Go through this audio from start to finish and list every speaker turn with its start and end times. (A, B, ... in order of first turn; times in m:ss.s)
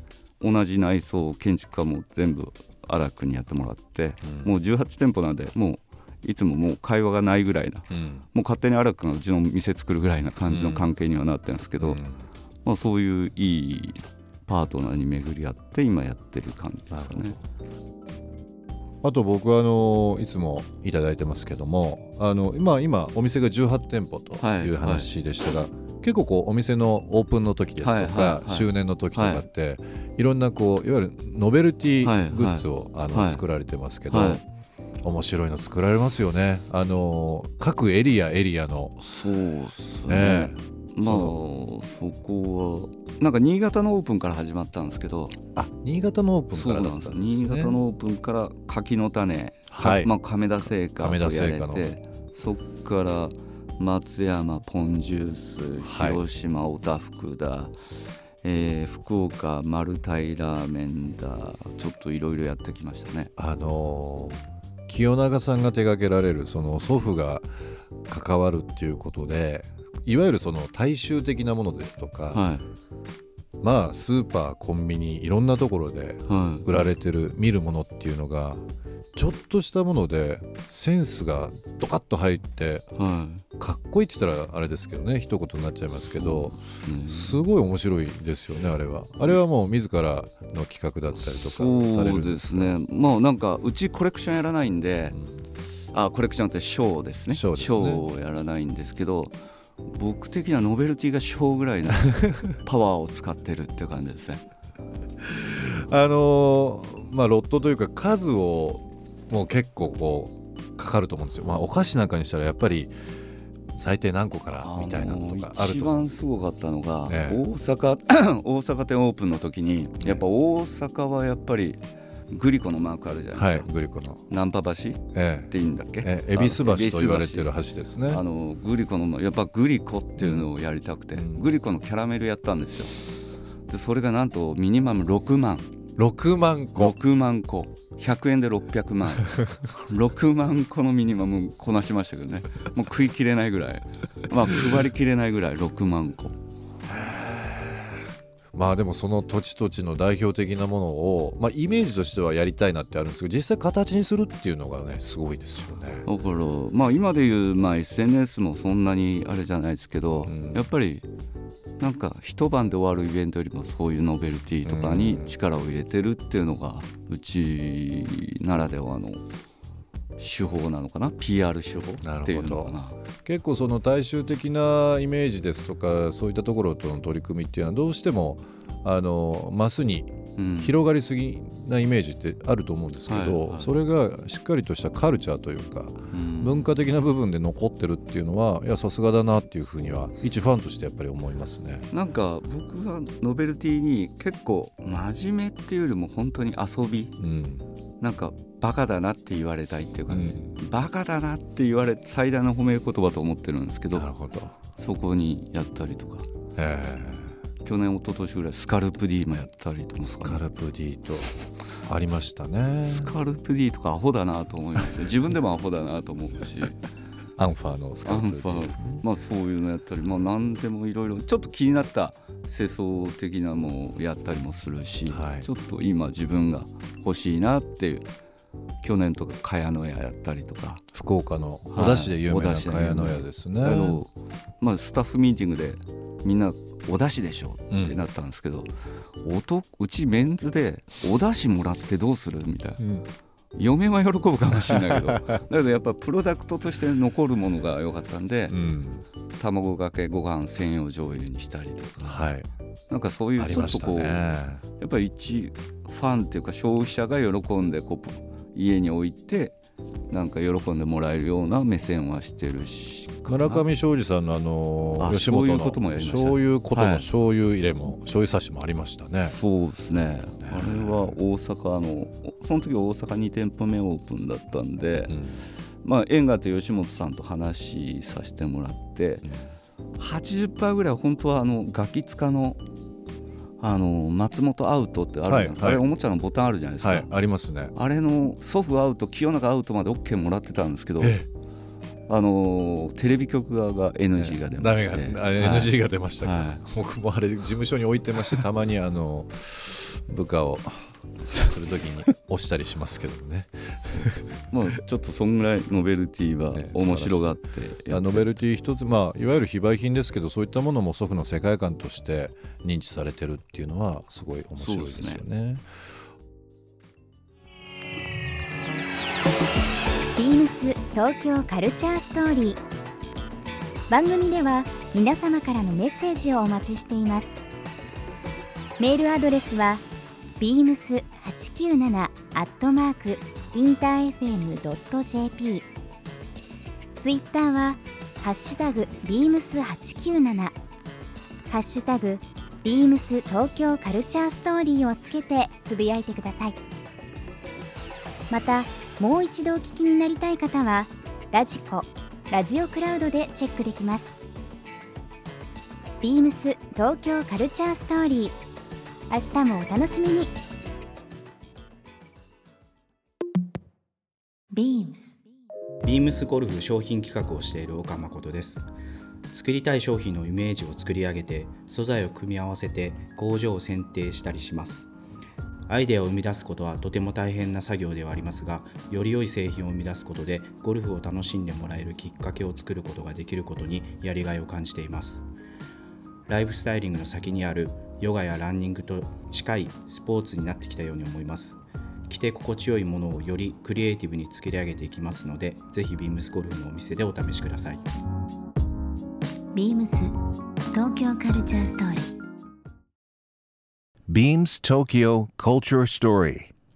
0:00.4-0:12.0 A
0:04.2-0:04.5 B
0:07.9-0:08.2 B
0:10.5-0:10.9 B
0:11.8-0:12.2 B
0:12.6-0:17.4 A
0:16.9-0:17.4 B
0:19.0-0:34.4 B
0:24.4-0:25.1 A
0:27.8-0:29.4 A
0:32.0-0:33.4 A
0:34.1-0:34.4 A
0:35.0-0:39.0 B
0:39.0-0:45.4 A
0:40.1-0:41.4 B
0:45.6-0:47.8 B
0:46.5-0:57.8 A
0:49.7-0:50.1 B
0:50.8-0:51.9 B
0:55.8-0:56.2 B
0:58.4-1:03.3 A
1:03.4-1:07.5 B
1:08.1-1:12.4 B
1:12.3-1:12.6 A
1:13.6-1:22.9 B
1:16.3-1:16.6 A
1:23.0-1:23.4 A
1:23.6-1:32.8 B
1:25.9-1:27.4 A
1:31.1-1:35.2 A
1:35.1-1:35.4 B
1:35.9-1:44.4 A
1:37.3-1:38.1 B
1:42.1-1:42.5 B
1:45.2-1:53.0 B
1:53.8-1:56.2 B
1:54.6-2:03.7 A
1:57.0-1:57.4 B
2:03.3-2:04.3 B
2:04.3-2:07.6 A
2:05.1-2:08.2 B
2:08.1-2:12.9 A
2:10.2-2:10.5 B
2:11.1-2:11.5 B
2:13.7-2:15.7 A
2:16.0-2:17.0 B
2:16.8-2:26.4 A
2:26.9-2:28.0 B
2:28.5-2:36.1 B
2:36.1-2:41.1 A
2:40.3-2:40.7 B
2:41.8-2:49.2 A
2:44.6-2:45.3 B
2:50.2-2:53.0 A
2:52.0-3:11.9 B
3:00.4-3:00.8 A
3:03.0-3:03.7 A
3:06.1-3:06.7 A
3:11.9-3:17.1 A
3:17.2-3:17.7 B
3:18.0-3:24.1 A
3:20.1-3:20.6 B
3:23.9-3:24.5 B
3:24.8-3:26.3 A
3:26.6-3:27.4 B
3:27.6-3:30.4 A
3:30.0-3:33.1 B
3:32.9-3:36.8 A
3:37.4-3:39.0 B
3:38.0-3:48.1 A
3:45.1-3:45.5 B
3:48.8-3:50.8 A
3:50.9-3:54.0 B
3:51.7-3:58.7 A
3:57.7-3:58.0 B
3:59.2-4:02.8 A
4:02.8-4:03.1 B
4:03.6-4:08.6 A
4:04.6-4:05.3 B
4:08.5-4:09.0 B
4:09.4-4:12.3 A
4:12.0-4:12.5 B
4:12.9-4:14.3 A
4:13.4-4:14.6 B
4:14.8-4:19.6 A
4:20.1-4:23.6 A
4:23.3-4:29.4 B
4:25.0-4:27.1 A
4:29.2-4:35.2 A
4:30.4-4:31.2 B
4:35.1-4:35.5 B
4:35.8-4:39.3 A
4:39.2-4:39.5 B
4:40.0-4:42.6 A
4:43.6-4:47.1 A
4:45.3-4:45.9 B
4:46.8-4:47.7 B
4:47.7-4:51.2 A
4:51.0-4:51.3 B
4:52.1-4:56.6 A
4:54.2-5:04.4 B
5:04.5-5:08.4 A
5:06.5-5:15.6 B
5:14.6-5:15.2 A
5:20.2-5:22.6 C
5:23.9-5:27.4 C
5:28.8-5:29.8 C
5:30.4-5:35.7 C
5:37.0-5:40.6 C
5:41.5-5:46.6 C
5:48.3-5:54.2 C
5:56.0-5:58.4 C
5:59.1-6:00.3 C
6:04.5-6:05.2 D
6:05.8-6:08.7 E
6:09.3-6:14.9 E
6:15.7-6:25.3 E
6:26.3-6:31.6 E
6:32.1-6:37.8 E
6:39.5-6:40.1 D
6:40.7-6:42.2 D
6:44.1-6:46.5 F